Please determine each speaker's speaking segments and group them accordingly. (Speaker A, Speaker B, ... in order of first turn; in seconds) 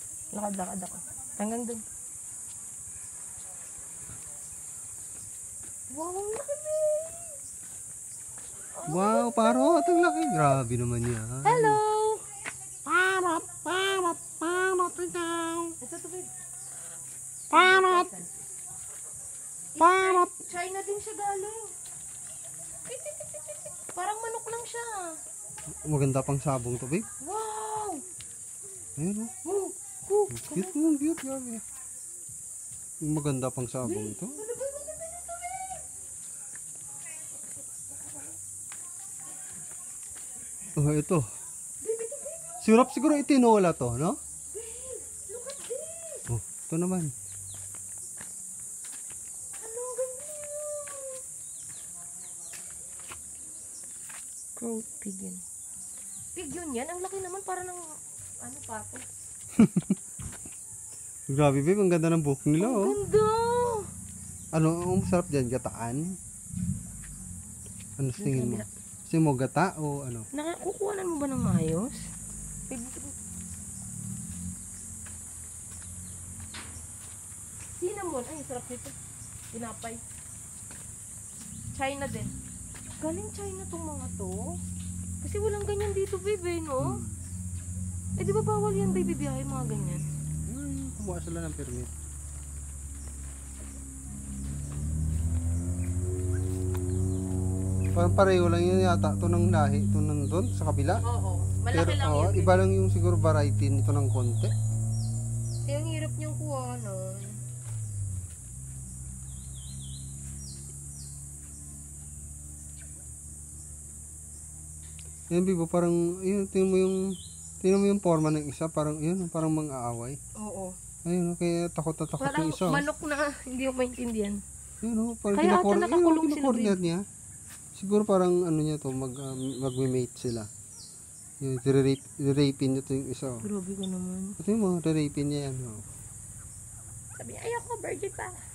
Speaker A: 0.3-1.8, 5.9-7.3, 8.8-9.8, 11.4-12.2, 15.8-16.3, 17.5-18.4, 19.8-21.7, 22.9-25.2, 27.2-28.0, 29.4-30.8, 33.8-35.8, 41.8-42.4, 44.5-46.3, 49.6-51.2, 54.6-55.4, 56.4-57.9, 58.4-59.0, 62.6-63.9, 68.2-68.7, 70.3-72.1, 72.7-73.2, 77.7-78.9, 79.5-80.0, 81.7-82.3, 83.0-84.6, 85.2-87.0, 88.2-90.0, 101.0-102.7, 105.7-107.4, 120.4-120.8, 122.2-124.4, 125.3-126.8, 133.4-134.4, 137.2-138.4
Speaker B: 8.9-11.8, 12.9-15.8, 17.5-18.1, 19.8-20.3, 25.9-27.1, 29.0-29.3, 30.3-31.6, 33.0-34.4, 40.8-41.3, 42.6-44.2, 46.3-47.1, 59.6-60.0, 61.3-63.0, 64.5-66.2, 68.0-70.3, 86.8-87.2, 90.5-91.9, 98.0-101.0, 101.7-104.5, 115.3-120.2, 121.1-122.8, 124.8-127.0, 127.8-130.5, 131.4-133.4, 134.4-135.9